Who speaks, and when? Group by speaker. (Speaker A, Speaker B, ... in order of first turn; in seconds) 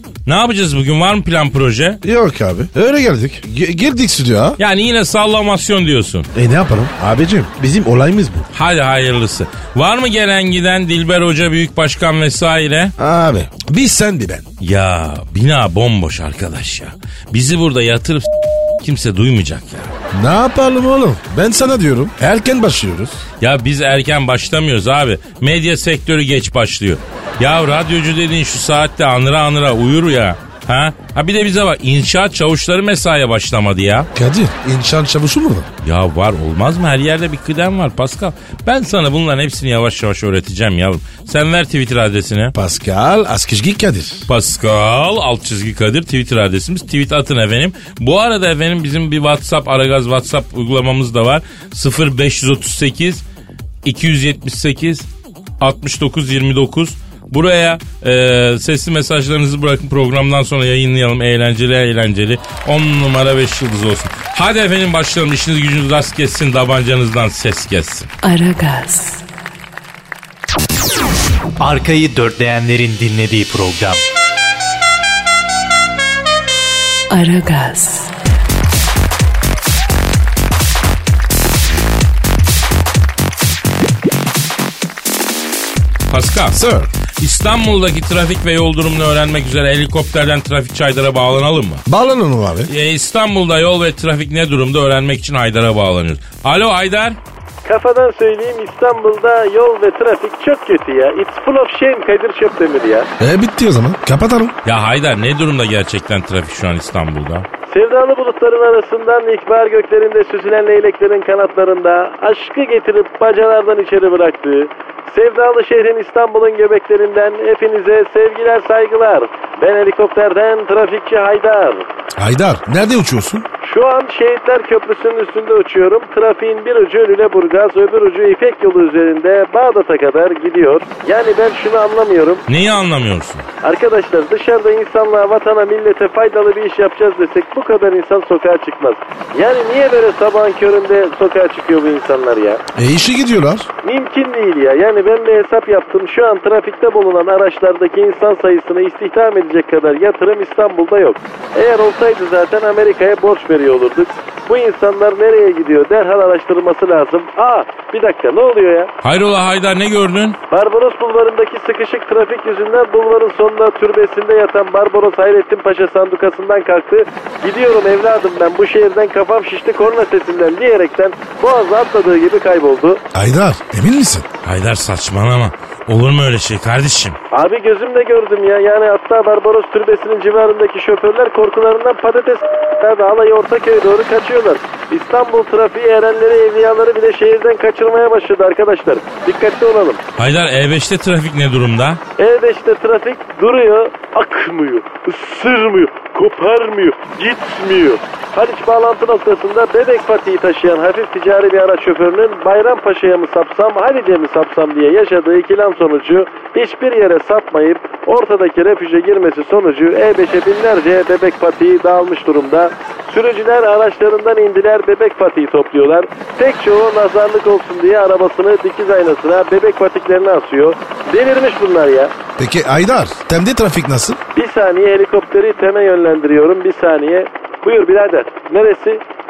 Speaker A: 0.3-2.0, 4.6-6.3, 8.5-12.9, 14.6-18.3, 18.8-19.9, 23.4-34.1, 35.8-42.5, 44.3-53.2, 53.9-55.1, 55.6-68.1, 86.1-86.6, 87.2-91.8, 92.7-97.2, 104.7-107.5, 132.5-133.4, 159.0-160.4, 174.4-177.2, 190.2-192.0
Speaker B: 2.0-4.6, 6.3-8.5, 13.0-14.5, 20.1-23.2, 34.1-35.7, 42.5-44.3, 86.5-86.9, 91.9-92.7, 103.2-104.5, 122.2-123.5, 142.8-143.7, 173.1-174.3, 222.4-224.2
Speaker C: 68.2-69.2, 77.1-78.1
Speaker D: 71.6-74.0
Speaker E: 97.7-103.1, 107.7-121.9, 123.6-132.4, 133.6-142.6, 143.8-158.9, 160.5-173.0, 177.3-190.0, 192.2-222.1, 224.4-229.0